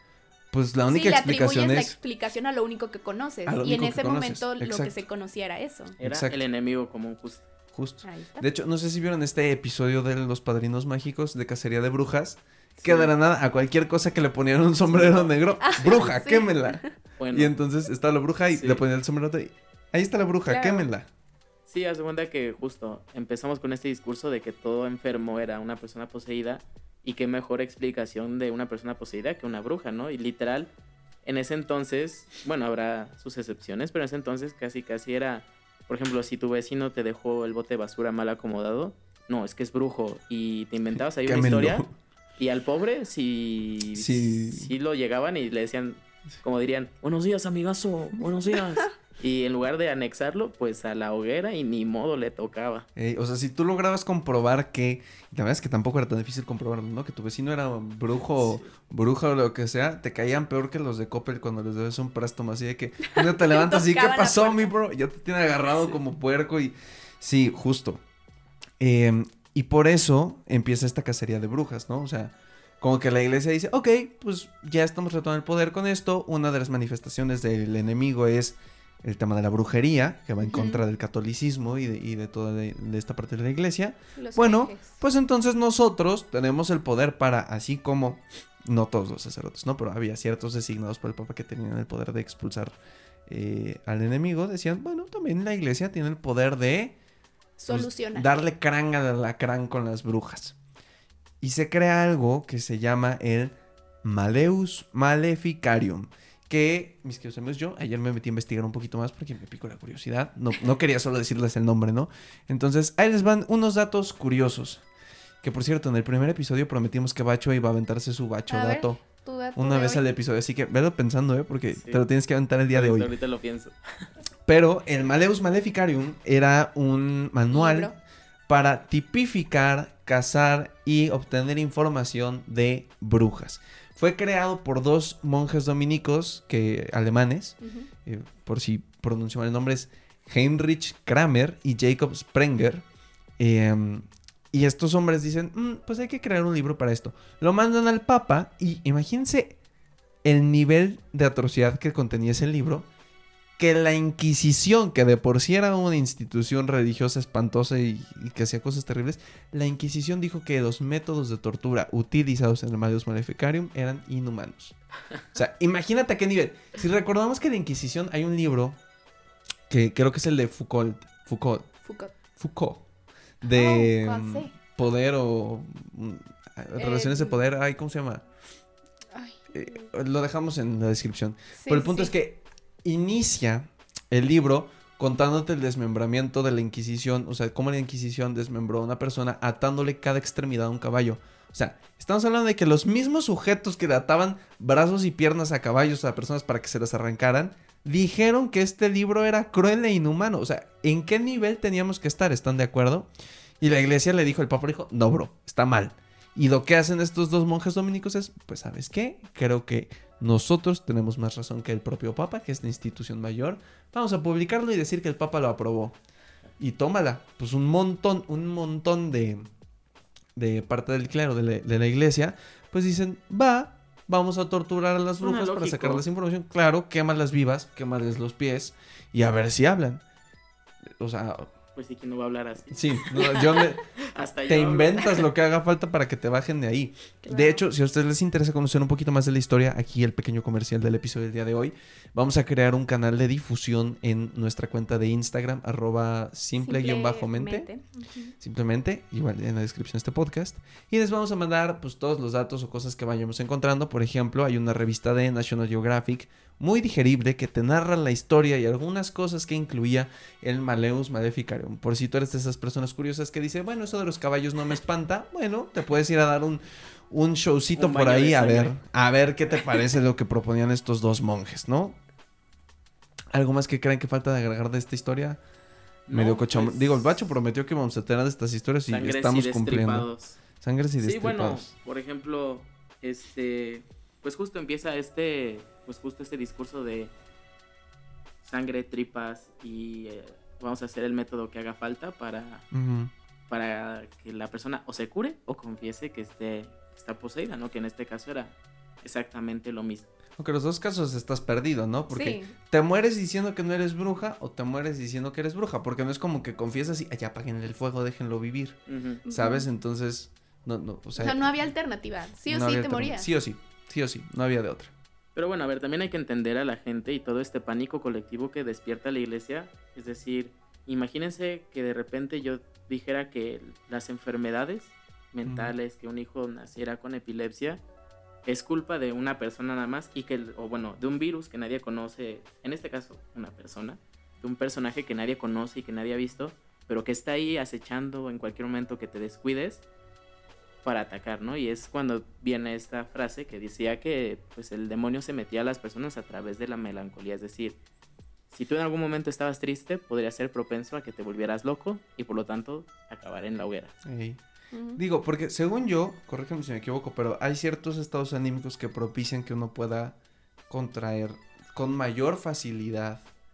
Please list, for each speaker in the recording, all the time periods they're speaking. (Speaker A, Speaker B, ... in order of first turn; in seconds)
Speaker A: 0.5-2.0, 3.5-5.0, 6.0-6.4, 7.7-21.1, 41.2-41.9, 44.0-44.7, 53.0-68.0, 68.8-92.8, 93.3-97.0, 97.7-100.6, 101.4-114.8, 115.4-119.0, 119.6-123.1, 124.5-127.9, 128.5-142.8, 143.4-149.6, 150.2-152.9, 153.6-164.8, 165.3-168.8, 169.7-171.7, 172.4-172.9, 173.4-178.2, 179.5-203.1, 203.6-216.0, 216.6-219.5, 220.3-230.0, 230.9-231.5, 232.7-233.8, 234.5-247.7, 248.4-272.0, 273.3-275.4, 276.1-281.7, 292.7-293.1, 300.4-311.5, 312.5-314.9, 325.5-325.7, 354.0-354.4, 355.0-360.2, 360.7-363.3
Speaker B: 0.9-6.0, 8.0-8.5, 12.8-13.1, 15.6-16.9, 20.5-20.9, 63.1-64.7, 80.4-80.8, 84.2-85.0, 97.6-98.3, 118.5-120.0, 127.5-128.0, 137.6-137.9, 171.8-172.1, 173.5-174.5, 176.8-177.4, 179.1-179.9, 181.6-182.1, 237.2-237.6, 246.6-248.3, 302.1-302.5, 309.3-309.7, 311.2-313.3, 354.7-355.0
Speaker C: 6.0-7.5, 14.9-15.3, 17.2-17.5, 18.5-18.8, 21.7-30.7, 31.2-41.9, 42.4-52.9, 58.4-58.7, 121.8-122.0, 122.7-124.1, 225.2-226.0, 231.8-235.2, 267.8-268.8, 276.1-277.2, 278.9-280.4, 281.0-287.1, 288.4-292.6, 293.5-300.1, 308.9-309.2, 315.4-327.8, 328.4-339.8, 340.8-347.8, 348.5-353.9